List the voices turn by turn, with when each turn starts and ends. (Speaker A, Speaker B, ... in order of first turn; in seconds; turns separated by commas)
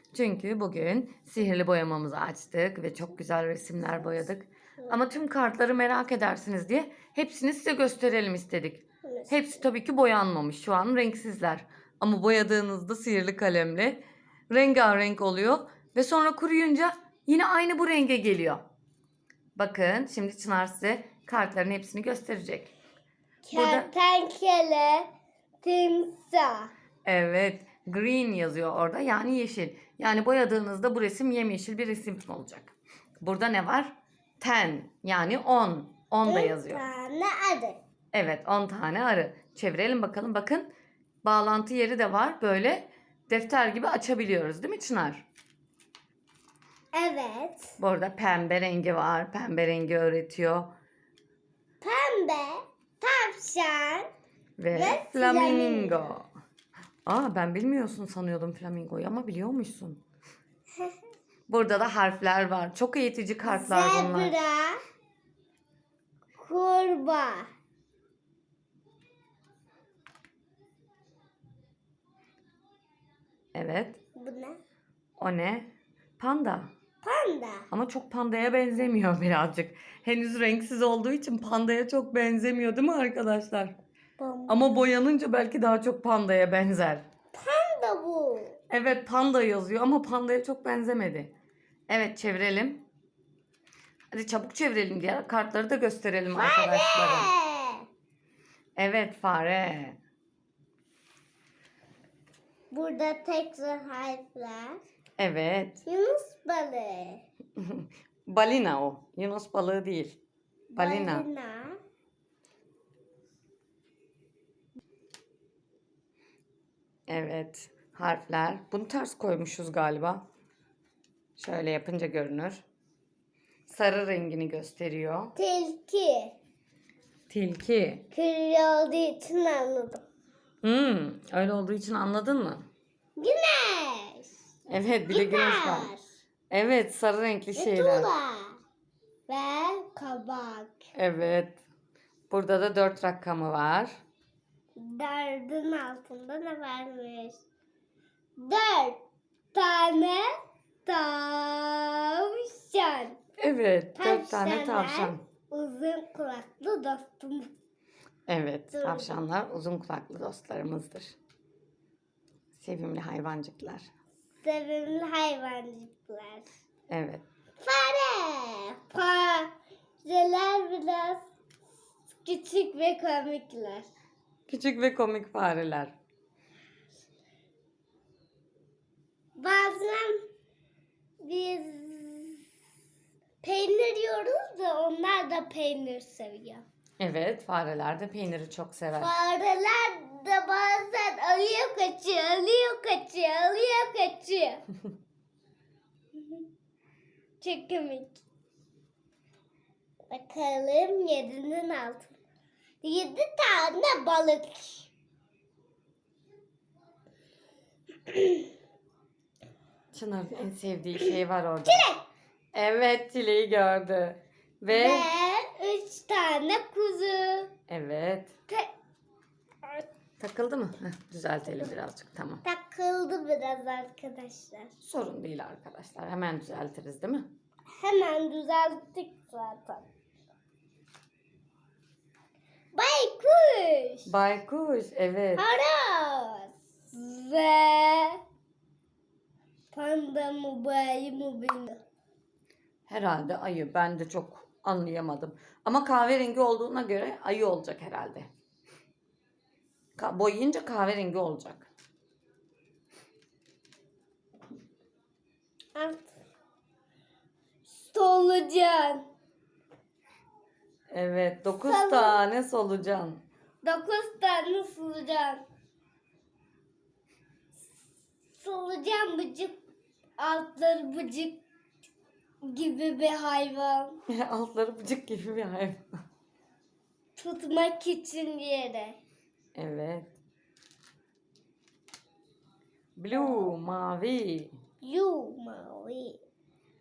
Speaker A: 0.1-18.6, Speaker B: 9.0-9.6, Speaker A: 19.6-22.7, Speaker B: 23.4-25.1, Speaker A: 23.5-23.9, Speaker B: 25.6-26.7, Speaker A: 27.0-36.8, Speaker B: 36.2-37.8, Speaker A: 38.1-40.7, Speaker A: 41.2-45.2, Speaker B: 46.9-47.8, Speaker A: 47.8-50.7, Speaker B: 51.8-54.1, Speaker A: 54.6-56.3, Speaker B: 54.7-56.1, Speaker A: 57.0-60.0, Speaker A: 61.5-64.4, Speaker B: 63.4-64.8, Speaker B: 66.3-67.5, Speaker A: 73.5-74.0, Speaker B: 74.2-74.6, Speaker A: 75.2-76.7, Speaker B: 77.0-77.7, Speaker A: 77.7-83.7, Speaker B: 84.2-84.6, Speaker A: 84.5-87.0, Speaker B: 87.3-88.6, Speaker A: 88.7-91.3, Speaker A: 91.9-92.8, Speaker A: 94.1-97.3, Speaker B: 96.3-97.8, Speaker A: 98.8-100.0, Speaker B: 102.7-104.8, Speaker A: 105.2-105.8, Speaker B: 105.8-107.2, Speaker A: 107.6-110.2, Speaker B: 110.7-111.8, Speaker A: 110.8-111.2, Speaker A: 117.1-120.2, Speaker A: 121.4-122.6, Speaker A: 123.7-125.3, Speaker B: 125.3-126.3, Speaker A: 127.3-128.1, Speaker B: 128.1-130.0, Speaker A: 130.6-132.7, Speaker B: 133.2-134.4, Speaker A: 134.7-135.9, Speaker B: 135.1-136.0, Speaker A: 136.5-138.1, Speaker B: 137.5-138.6, Speaker B: 139.3-140.8, Speaker A: 140.9-141.6, Speaker A: 142.3-143.9, Speaker B: 144.8-147.4, Speaker B: 148.4-149.0, Speaker B: 149.5-150.3, Speaker B: 150.8-153.2, Speaker A: 153.4-155.2, Speaker B: 153.9-157.5, Speaker A: 158.3-161.2, Speaker B: 158.7-159.2, Speaker A: 162.5-163.9, Speaker B: 164.4-166.5, Speaker A: 166.9-167.2, Speaker B: 167.6-171.2, Speaker B: 172.2-173.9, Speaker A: 174.5-175.9, Speaker B: 179.4-180.2, Speaker B: 181.2-182.4, Speaker B: 183.4-186.6, Speaker A: 187.0-189.1, Speaker B: 189.0-194.6, Speaker B: 196.1-196.4, Speaker B: 197.4-198.2, Speaker B: 200.1-202.2, Speaker B: 202.8-204.9, Speaker B: 208.1-208.4, Speaker A: 209.9-211.8, Speaker B: 211.7-212.0, Speaker A: 212.5-215.1, Speaker B: 214.7-217.5, Speaker A: 217.7-218.3, Speaker A: 220.2-222.4, Speaker B: 222.4-224.7, Speaker A: 224.8-227.3, Speaker B: 227.8-229.9, Speaker B: 232.7-234.1, Speaker A: 234.1-235.5, Speaker B: 235.4-238.2, Speaker B: 239.7-241.8, Speaker A: 242.9-248.3, Speaker A: 250.0-251.7, Speaker B: 255.7-256.1, Speaker B: 257.7-259.0, Speaker A: 260.9-263.2, Speaker B: 261.6-262.2, Speaker B: 263.6-265.4, Speaker B: 268.4-269.6, Speaker B: 270.2-271.4, Speaker B: 272.4-274.0, Speaker A: 274.1-275.8, Speaker B: 277.1-279.0, Speaker A: 279.6-280.1, Speaker A: 282.9-284.5, Speaker B: 283.1-283.5, Speaker B: 284.8-286.2